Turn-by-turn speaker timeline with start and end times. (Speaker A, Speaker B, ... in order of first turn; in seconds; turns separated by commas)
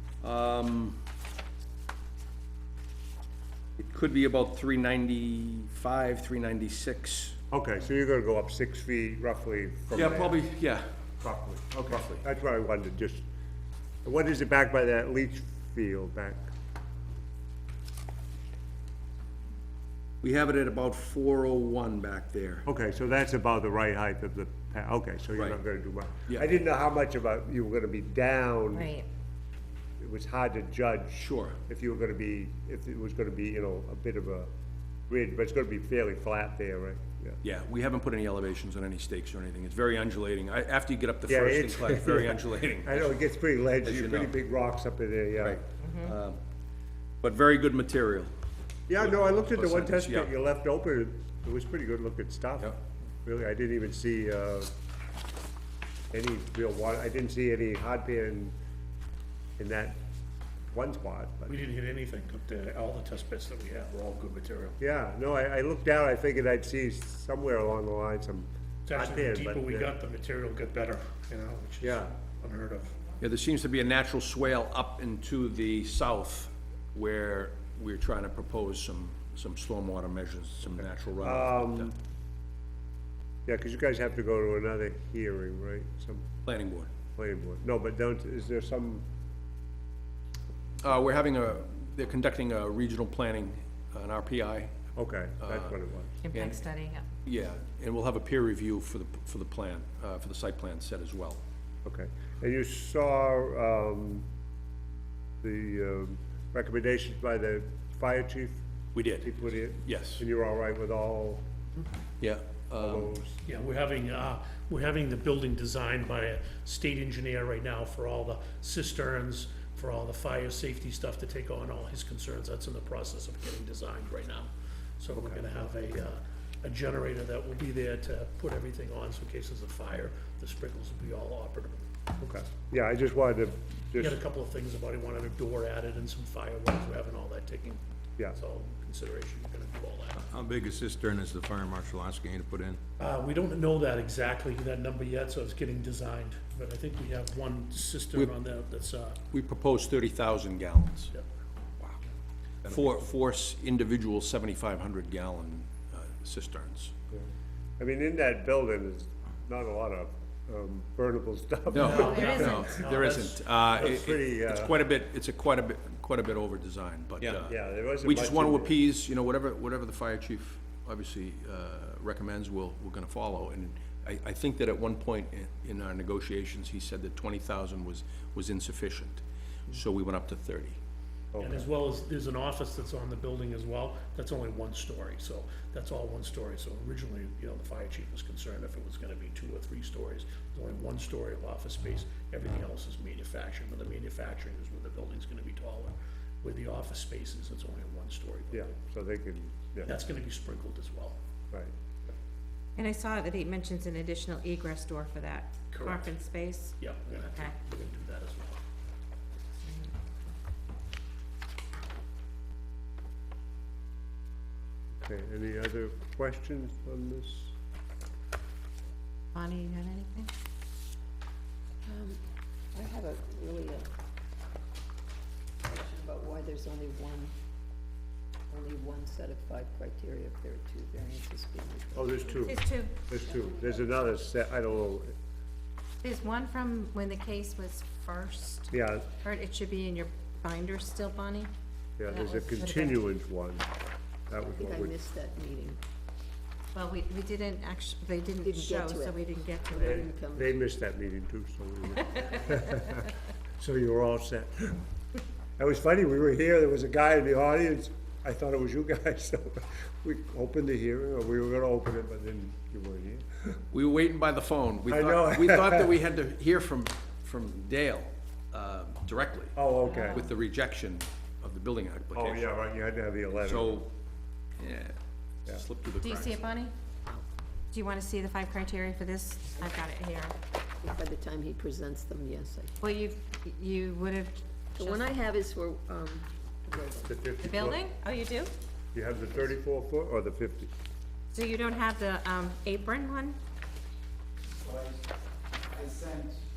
Speaker A: 0.2-1.0, Speaker A: 3.8-7.4, Speaker B: 7.5-10.4, Speaker A: 9.9-10.9, Speaker B: 11.2-13.2, Speaker A: 11.9-12.2, Speaker B: 14.0-16.5, Speaker A: 20.2-22.7, Speaker B: 22.7-28.9, Speaker A: 26.3-26.5, Speaker C: 28.7-29.1, Speaker B: 30.0-34.5, Speaker A: 31.2-31.6, Speaker B: 35.1-37.4, Speaker A: 37.4-43.1, Speaker B: 41.3-45.6, Speaker A: 43.8-44.4, Speaker A: 45.4-46.4, Speaker C: 45.8-46.1, Speaker A: 47.2-48.3, Speaker B: 48.9-54.7, Speaker A: 49.0-50.3, Speaker B: 56.1-58.5, Speaker B: 59.6-60.0, Speaker B: 60.7-61.6, Speaker D: 61.5-64.8, Speaker B: 64.8-69.9, Speaker D: 68.9-73.0, Speaker B: 71.8-72.1, Speaker A: 73.2-81.9, Speaker B: 81.2-82.0, Speaker B: 83.5-86.3, Speaker A: 86.5-86.9, Speaker B: 87.2-89.1, Speaker A: 90.8-94.8, Speaker B: 95.0-96.2, Speaker A: 95.4-95.8, Speaker C: 96.2-97.1, Speaker A: 96.3-96.6, Speaker A: 97.2-101.4, Speaker B: 101.8-104.3, Speaker B: 105.4-108.6, Speaker A: 108.9-109.3, Speaker B: 109.2-111.5, Speaker A: 109.8-110.2, Speaker A: 112.2-113.2, Speaker B: 112.8-113.4, Speaker D: 113.5-131.9, Speaker B: 125.2-125.6, Speaker B: 132.2-134.2, Speaker D: 134.0-137.8, Speaker D: 138.3-140.3, Speaker E: 140.3-142.8, Speaker D: 143.0-149.2, Speaker A: 149.3-151.1, Speaker A: 152.7-156.9, Speaker B: 157.8-162.8, Speaker A: 161.7-180.8, Speaker D: 161.8-163.6, Speaker C: 161.9-162.8, Speaker B: 163.7-164.8, Speaker B: 167.2-168.8, Speaker B: 181.3-181.7, Speaker D: 181.4-198.7, Speaker B: 198.5-200.0, Speaker D: 199.8-201.2, Speaker C: 202.8-206.8, Speaker D: 205.7-206.2, Speaker D: 206.8-208.6, Speaker C: 209.6-210.3, Speaker B: 214.9-217.5, Speaker C: 219.3-220.3, Speaker F: 221.8-222.2, Speaker F: 222.7-223.9, Speaker F: 225.6-227.3, Speaker F: 228.5-232.4, Speaker B: 231.9-235.1, Speaker C: 232.4-232.9, Speaker F: 233.3-233.8, Speaker C: 236.0-238.7, Speaker B: 238.7-239.1, Speaker C: 239.2-241.5, Speaker B: 242.0-243.7, Speaker C: 242.1-243.0, Speaker B: 244.3-245.0, Speaker F: 244.5-245.8, Speaker C: 246.7-250.1, Speaker F: 248.4-250.6, Speaker B: 249.7-253.1, Speaker B: 253.6-254.8, Speaker B: 255.6-263.6, Speaker A: 263.7-269.6, Speaker B: 264.9-265.9, Speaker B: 269.6-270.3, Speaker C: 269.9-270.3, Speaker A: 270.1-272.5, Speaker B: 272.1-273.8, Speaker A: 273.4-273.9, Speaker A: 274.6-275.0, Speaker A: 275.5-276.4, Speaker C: 276.0-276.7, Speaker C: 277.7-280.4, Speaker F: 280.8-282.8, Speaker C: 282.8-285.2, Speaker F: 284.8-287.2, Speaker B: 287.1-287.8, Speaker C: 287.4-288.5, Speaker B: 288.9-290.7, Speaker C: 291.3-293.4